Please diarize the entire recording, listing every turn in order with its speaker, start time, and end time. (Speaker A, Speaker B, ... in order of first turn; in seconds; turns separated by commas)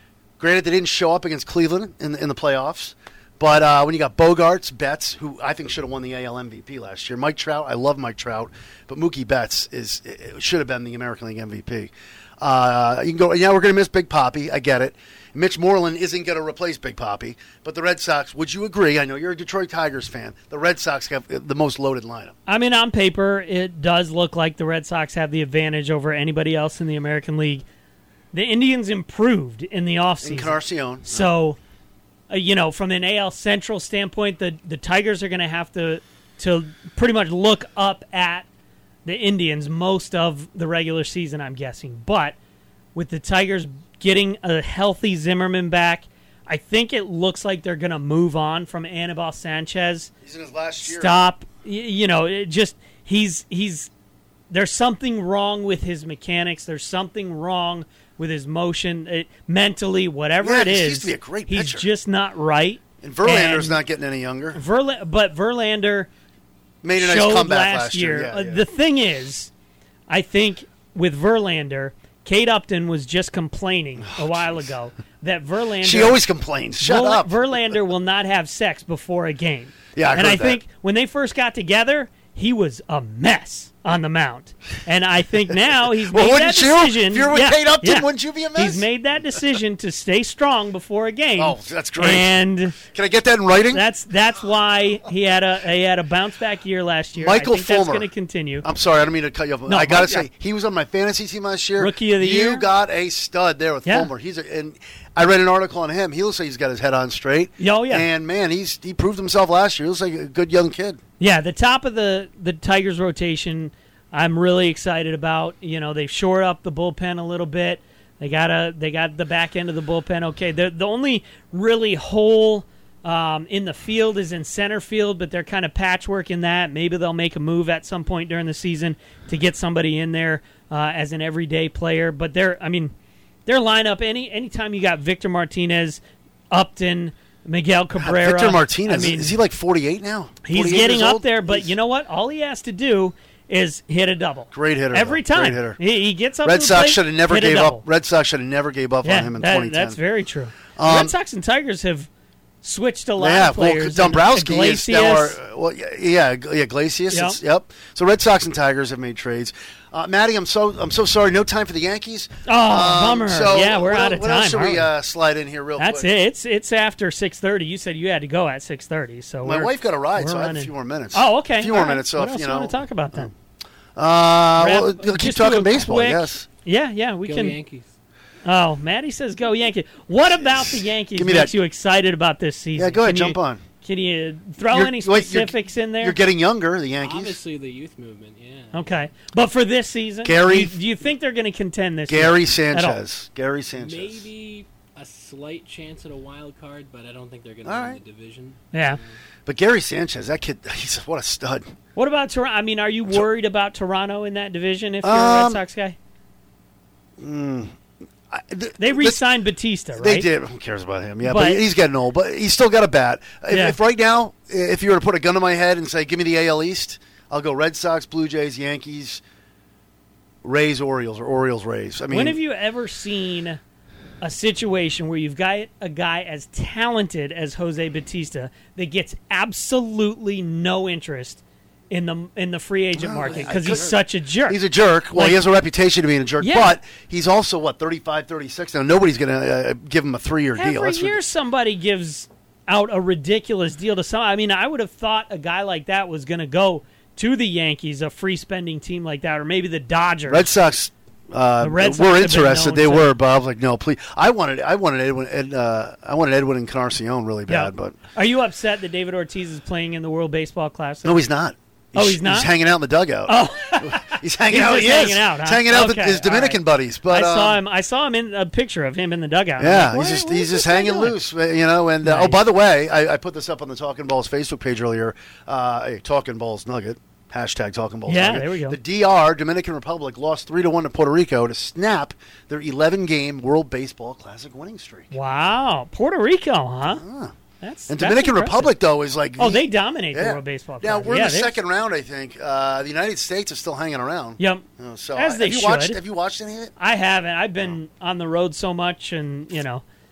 Speaker A: 0.4-22.4, Speaker B: 22.5-27.6, Speaker B: 28.3-31.6, Speaker A: 30.2-31.3, Speaker B: 32.3-38.5, Speaker B: 39.0-42.4, Speaker B: 43.0-50.1, Speaker A: 50.2-51.1, Speaker B: 50.8-53.9, Speaker B: 54.5-63.8, Speaker A: 60.4-61.9, Speaker A: 63.0-64.6, Speaker B: 64.5-66.1, Speaker A: 66.8-68.6, Speaker B: 67.0-69.5, Speaker B: 70.1-76.2, Speaker A: 74.1-74.6, Speaker A: 75.8-77.4, Speaker B: 76.8-92.8, Speaker A: 80.0-80.6, Speaker A: 85.7-88.9, Speaker A: 91.4-93.8, Speaker B: 93.7-98.7, Speaker A: 97.2-98.1, Speaker A: 98.6-111.0, Speaker B: 99.7-100.3, Speaker B: 101.8-102.6, Speaker B: 107.6-108.1, Speaker B: 111.2-132.9, Speaker B: 133.5-139.4, Speaker A: 138.0-141.7, Speaker B: 140.4-147.8, Speaker A: 144.5-145.8, Speaker A: 146.4-150.0, Speaker B: 149.0-152.1, Speaker A: 150.8-151.1, Speaker B: 152.6-155.4, Speaker A: 153.2-166.1, Speaker B: 157.1-157.4, Speaker B: 162.4-164.9, Speaker B: 165.8-173.3, Speaker A: 169.4-173.3, Speaker A: 174.0-176.5, Speaker B: 174.6-177.6, Speaker C: 177.2-177.9, Speaker B: 178.4-186.2, Speaker A: 180.4-181.5, Speaker A: 182.8-183.6, Speaker A: 184.7-187.4, Speaker C: 187.0-188.9, Speaker B: 188.7-193.0, Speaker A: 190.2-190.8, Speaker A: 192.1-194.3, Speaker C: 193.8-199.2, Speaker A: 197.6-198.0, Speaker B: 198.7-199.0, Speaker A: 199.5-201.6, Speaker B: 202.0-206.0, Speaker A: 205.0-205.6, Speaker A: 207.2-207.8, Speaker A: 208.3-209.2, Speaker B: 208.8-210.3, Speaker A: 210.0-219.2, Speaker B: 211.2-211.6, Speaker B: 213.5-213.8, Speaker A: 220.4-222.4, Speaker B: 222.1-223.6, Speaker B: 224.2-231.4, Speaker B: 231.9-234.6, Speaker A: 233.0-241.2, Speaker B: 235.1-235.4, Speaker B: 236.4-236.8, Speaker B: 240.6-250.5, Speaker A: 250.3-258.0, Speaker B: 251.6-253.1, Speaker B: 257.5-261.2, Speaker A: 261.0-267.6, Speaker B: 261.9-262.5, Speaker B: 263.3-271.1, Speaker A: 269.6-285.1, Speaker B: 272.0-272.4, Speaker B: 278.1-278.8, Speaker B: 285.1-287.0, Speaker A: 286.9-287.3, Speaker B: 287.6-288.7, Speaker A: 287.9-296.7, Speaker B: 289.4-291.6, Speaker B: 294.4-296.0, Speaker B: 296.8-299.8